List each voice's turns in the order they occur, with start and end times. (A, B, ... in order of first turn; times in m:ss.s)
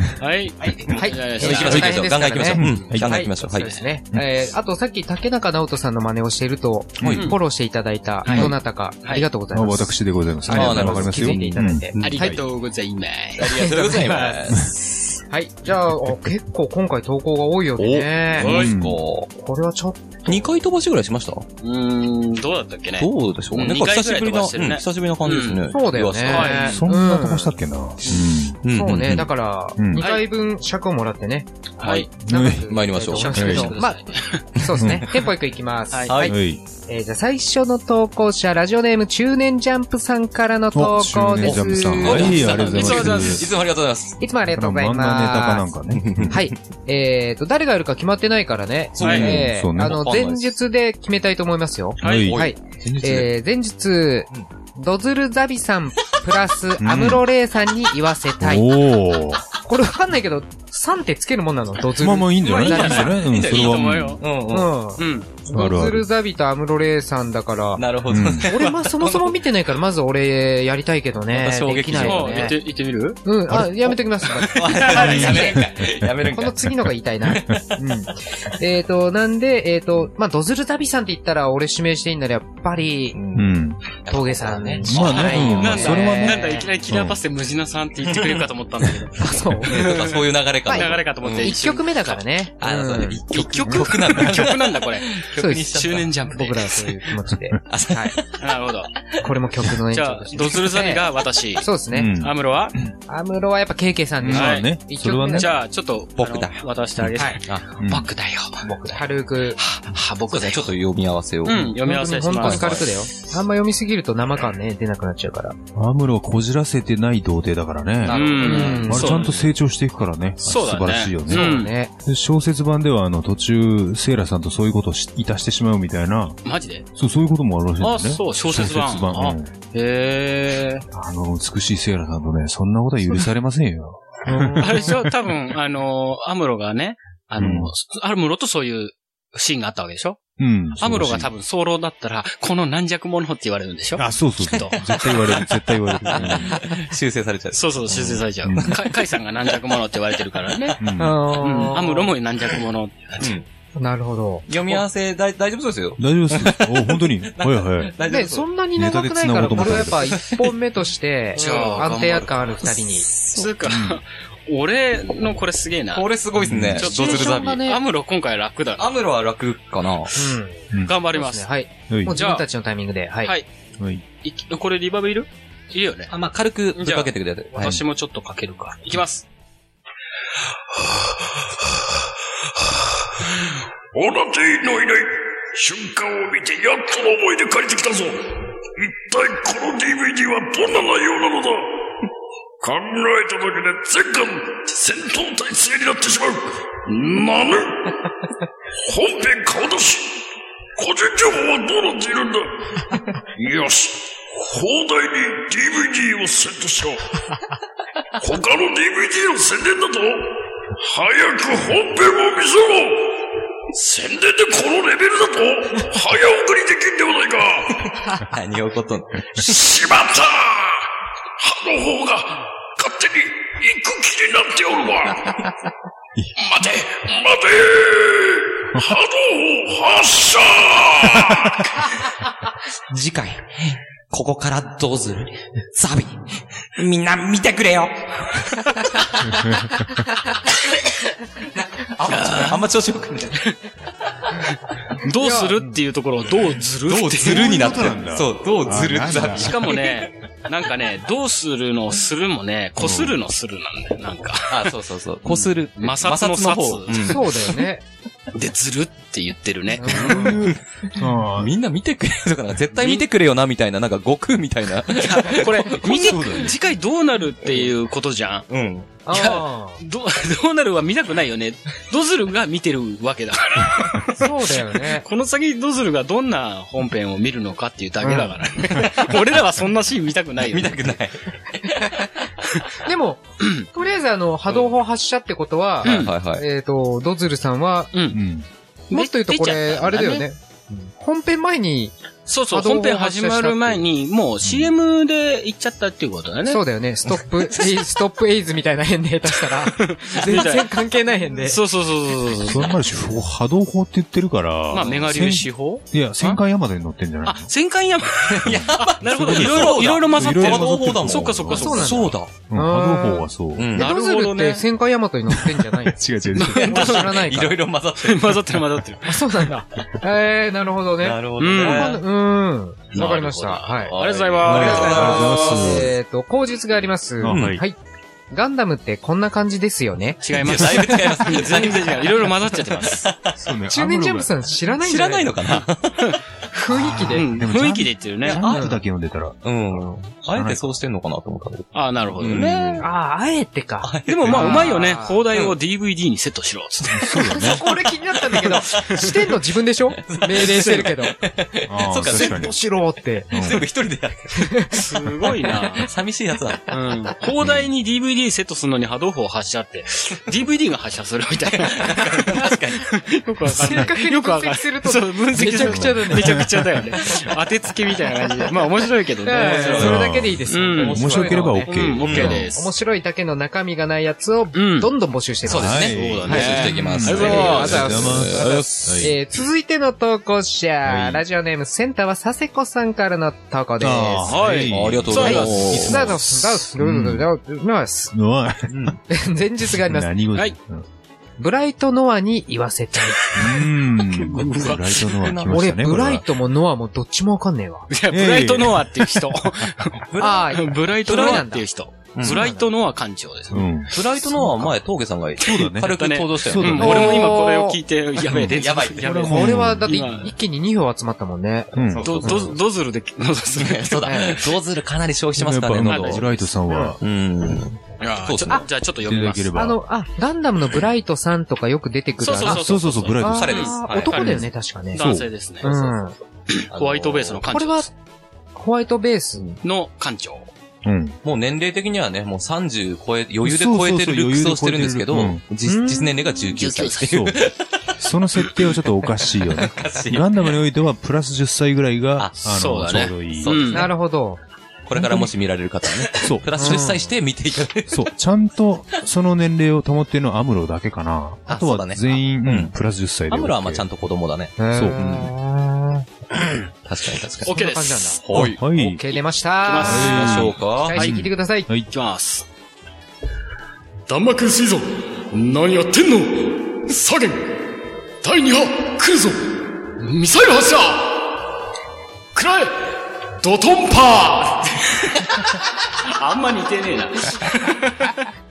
0:00.2-0:02.9 A
0:00.6-0:03.8 B
0:00.9-0:12.4 C
0:02.6-0:03.2 D
0:07.0-0:07.3 D
0:08.3-0:08.5 B
0:09.5-0:12.4 D
0:10.5-0:12.2 B
0:12.0-0:14.4 A
0:13.4-0:14.8 B
0:15.3-0:18.5 C
0:17.8-0:19.3 B
0:18.4-0:18.7 A
0:18.4-0:19.0 D
0:19.4-0:20.5 C
0:20.3-0:21.5 B
0:21.6-0:25.6 A
0:23.0-0:26.8 B
0:25.7-0:27.5 C
0:26.3-0:26.8 A
0:26.7-0:29.2 D
0:28.1-0:29.3 B
0:28.7-0:34.0 C
0:29.8-0:30.0 D
0:30.0-0:30.2 A
0:31.8-0:32.1 A
0:32.2-0:32.7 D
0:32.7-0:33.8 B
0:33.2-0:34.4 A
0:33.3-0:33.7 D
0:34.5-0:42.7 C
0:34.6-0:34.9 B
0:34.8-0:35.1 D
0:36.1-0:36.4 B
0:36.3-0:36.6 D
0:40.7-0:43.5 D
0:41.4-0:44.2 B
0:42.0-0:43.5 A
0:44.2-0:45.7 C
0:44.5-0:46.4 D
0:45.9-0:46.5 B
0:46.3-0:58.7 C
0:49.0-0:50.4 B
0:49.0-0:49.3 A
0:49.0-0:50.0 D
0:52.0-0:53.3 D
0:52.0-0:52.3 A
0:52.0-0:52.5 B
0:56.8-0:57.2 D
0:58.4-0:59.4 D
0:59.6-1:03.2 C
1:02.0-1:04.2 D
1:02.5-1:04.2 A
1:02.6-1:04.7 B
1:04.5-1:07.8 C
1:05.0-1:05.3 A
1:05.5-1:06.1 D
1:07.8-1:09.4 B
1:08.1-1:08.5 D
1:08.4-1:12.6 C
1:11.3-1:12.6 B
1:12.0-1:13.2 A
1:13.2-1:15.6 C
1:13.5-1:13.8 D
1:14.4-1:16.6 B
1:14.7-1:15.8 A
1:15.0-1:16.2 D
1:16.3-1:23.2 C
1:23.1-1:25.9 B
1:23.4-1:23.8 D
1:24.1-1:26.7 C
1:24.8-1:27.2 D
1:25.0-1:29.2 A
1:28.1-1:28.4 B
1:29.2-1:29.9 C
1:29.7-1:31.5 B
1:29.7-1:32.2 A
1:30.7-1:33.8 C
1:32.6-1:36.1 B
1:33.3-1:36.8 A
1:35.4-1:35.7 C
1:36.3-1:38.2 C
1:37.3-1:37.6 D
1:37.7-1:38.4 B
1:38.4-1:38.9 A
1:39.2-1:41.0 C
1:39.9-1:41.7 A
1:41.6-1:42.1 C
1:41.9-1:42.9 D
1:42.2-1:42.8 A
1:43.1-1:45.5 C
1:44.2-1:45.5 D
1:44.3-1:44.7 A
1:45.3-1:48.6 A
1:46.2-1:46.6 B
1:47.8-1:48.1 D
1:48.6-1:49.6 C
1:49.6-1:50.7 A
1:50.3-1:51.7 B
1:51.4-1:52.9 A
1:51.8-1:55.6 C
1:52.3-1:52.9 B
1:55.8-2:06.4 D
1:58.0-1:59.2 B
1:58.1-1:59.4 A
1:58.4-1:59.2 C
2:00.4-2:01.7 A
2:01.3-2:01.9 C
2:06.4-2:06.9 A
2:07.0-2:09.5 D
2:07.8-2:10.8 A
2:10.9-2:15.0 D
2:14.3-2:14.8 C
2:14.6-2:20.2 A
2:17.4-2:17.7 D
2:20.4-2:21.3 D
2:20.8-2:25.5 A
2:24.0-2:26.6 D
2:26.1-2:26.8 A
2:26.1-2:29.0 B
2:27.5-2:30.8 A
2:28.4-2:28.8 D
2:30.8-2:31.2 D
2:31.0-2:32.1 C
2:31.4-2:33.4 A
2:33.2-2:33.5 B
2:33.8-2:34.5 C
2:34.5-2:38.5 B
2:36.0-2:38.0 D
2:38.1-2:43.1 C
2:38.8-2:40.1 D
2:39.4-2:40.5 B
2:41.4-2:42.4 A
2:41.4-2:43.5 B
2:43.3-2:46.1 A
2:43.7-2:44.0 D
2:45.9-2:47.6 B
2:46.4-2:46.9 D
2:46.8-2:48.9 A
2:46.9-2:47.8 C
2:48.8-2:50.1 B
2:50.2-2:50.6 C
2:50.7-2:51.0 D
2:50.8-2:51.5 A
2:51.1-2:53.3 C
2:51.9-2:52.2 D
2:52.1-2:52.4 A
2:53.8-2:54.0 D
2:54.2-2:56.1 A
2:56.1-2:57.8 B
2:56.8-2:59.2 A
3:00.8-3:01.8 E
3:03.3-3:08.2 E
3:08.8-3:11.7 E
3:12.6-3:17.9 E
3:18.9-3:20.2 E
3:20.8-3:27.0 E
3:28.2-3:30.3 E
3:30.8-3:33.1 E
3:33.7-3:38.1 E
3:38.2-3:39.5 B
3:39.4-3:40.9 E
3:41.4-3:45.5 E
3:46.4-3:51.8 E
3:52.9-3:53.4 F
3:54.1-3:56.2 F
3:56.8-3:59.5 F
4:02.0-4:03.5 B
4:02.1-4:02.6 A
4:05.0-4:07.9 A
4:05.2-4:05.8 C
4:06.9-4:09.9 B
4:07.2-4:09.7 D
4:09.0-4:17.2 A
4:12.8-4:13.2 D
4:14.5-4:17.4 B
4:17.0-4:17.8 C
4:18.3-4:20.4 A
4:19.8-4:20.4 C
4:19.9-4:21.5 D
4:21.4-4:26.5 B
4:22.7-4:23.1 A
4:24.9-4:28.5 A
4:25.9-4:26.5 D
4:28.5-4:28.9 B
4:29.1-4:29.8 C
4:29.1-4:40.9 A
4:34.1-4:35.0 C
4:38.0-4:38.4 C
4:40.4-4:42.1 B
4:42.8-4:47.9 C
4:43.4-4:43.7 A
4:45.8-4:46.1 A
4:45.8-4:46.4 B
4:47.9-4:48.2 A
4:48.1-4:48.5 D
4:48.9-4:50.2 A
4:48.9-4:50.4 C
4:51.0-4:52.0 C
4:52.3-4:56.6 A
4:52.5-4:53.8 C
4:56.5-5:01.6 C
4:59.8-5:00.7 A
5:01.4-5:02.8 A
5:02.4-5:07.5 D
5:04.7-5:06.4 A
5:07.2-5:12.1 A
5:08.2-5:12.3 B
5:08.4-5:11.7 D
5:11.6-5:17.6 C
5:12.5-5:13.7 D
5:13.6-5:13.9 B
5:13.8-5:14.6 A
5:15.3-5:17.0 D
5:16.4-5:17.2 A
5:16.6-5:18.6 B
5:18.0-5:19.5 A
5:19.0-5:24.0 C
5:21.0-5:22.0 B
5:21.4-5:22.0 A
5:22.9-5:25.4 A
5:23.0-5:23.2 B
5:23.8-5:25.9 B
5:24.4-5:25.9 D
5:24.6-5:27.8 C
5:27.2-5:27.6 D
5:27.3-5:27.6 B
5:28.3-5:30.2 C
5:30.2-5:33.1 A
5:30.4-5:33.4 B
5:33.4-5:34.3 D
5:33.7-5:35.3 C
5:34.8-5:36.2 B
5:35.5-5:36.2 A
5:36.5-5:37.3 C
5:36.7-5:40.8 D
5:37.0-5:38.4 A
5:38.3-5:38.6 B
5:38.4-5:38.8 C
5:39.4-5:42.9 B
5:41.7-5:42.8 A
5:42.8-5:45.2 C
5:43.8-5:44.8 B
5:44.1-5:47.4 A
5:46.9-5:47.6 D
5:47.3-5:51.2 C
5:48.2-5:49.3 B
5:50.0-5:52.5 B
5:51.7-5:52.6 D
5:52.0-5:53.4 C
5:53.3-5:53.6 D
5:53.4-5:54.8 B
5:54.3-5:54.8 C
5:54.7-5:55.9 A
5:55.5-5:56.8 B
5:56.7-6:10.0 A
6:01.7-6:02.9 B
6:03.6-6:06.4 C
6:05.5-6:06.6 D
6:09.2-6:11.7 C
6:09.4-6:10.0 B
6:09.8-6:12.5 D
6:10.5-6:12.7 A
6:10.8-6:12.5 B
6:12.5-6:15.9 C
6:14.5-6:14.9 A
6:15.4-6:19.1 D
6:15.4-6:19.2 B
6:16.0-6:18.0 A
6:17.2-6:24.6 C
6:20.8-6:21.2 D
6:23.8-6:27.3 D
6:24.3-6:25.9 A
6:24.7-6:26.0 B
6:25.2-6:28.1 C
6:28.1-6:29.0 D
6:28.7-6:29.0 B
6:29.1-6:30.1 C
6:29.6-6:30.9 D
6:31.4-6:33.2 C
6:33.1-6:35.2 A
6:33.3-6:36.3 D
6:34.3-6:35.6 B
6:35.5-6:37.9 C
6:37.9-6:44.1 A
6:38.1-6:39.4 D
6:40.1-6:41.5 B
6:40.2-6:41.6 C
6:42.2-6:42.4 B
6:42.2-6:42.7 C
6:43.5-6:44.0 D
6:43.9-6:47.3 B
6:45.4-6:47.2 D
6:45.4-6:50.3 A
6:46.8-6:47.8 C
6:48.3-6:50.0 D
6:48.3-6:49.5 B
6:49.3-6:51.8 C
6:51.7-6:52.5 D
6:51.8-6:52.6 B
6:52.0-6:54.5 A
6:53.6-6:56.4 B
6:54.0-6:54.4 C
6:55.4-6:57.0 D
6:55.8-6:56.5 A
6:57.0-6:58.6 B
6:58.0-6:59.5 A
6:59.0-6:59.8 D
6:59.6-7:05.0 C
7:02.2-7:06.0 A
7:02.4-7:05.3 D
7:03.3-7:04.4 B
7:05.6-7:06.2 C
7:06.5-7:07.9 A
7:06.7-7:07.6 B
7:07.5-7:07.9 C
7:08.6-7:09.4 C
7:09.6-7:10.5 A
7:10.8-7:11.2 D
7:11.2-7:17.7 B
7:13.4-7:15.4 D
7:15.6-7:16.1 C
7:16.5-7:17.2 A
7:17.0-7:17.4 D
7:18.0-7:23.7 D
7:18.4-7:20.6 B
7:22.4-7:23.9 A
7:23.4-7:23.9 B
7:23.7-7:24.4 C
7:24.9-7:28.1 B
7:25.0-7:25.3 D
7:26.1-7:27.0 D
7:26.6-7:27.0 C
7:27.9-7:33.8 D
7:31.5-7:32.7 B
7:33.3-7:35.3 B
7:34.6-7:36.1 C
7:34.7-7:35.0 D
7:36.8-7:37.6 B
7:37.4-7:38.5 A
7:37.5-7:41.7 C
7:38.2-7:38.6 B
7:38.3-7:39.0 D
7:39.6-7:41.2 A
7:39.8-7:41.9 D
7:39.9-7:41.0 B
7:41.9-7:42.5 A
7:44.1-7:47.6 A
7:48.2-7:51.2 A
7:52.4-7:58.3 A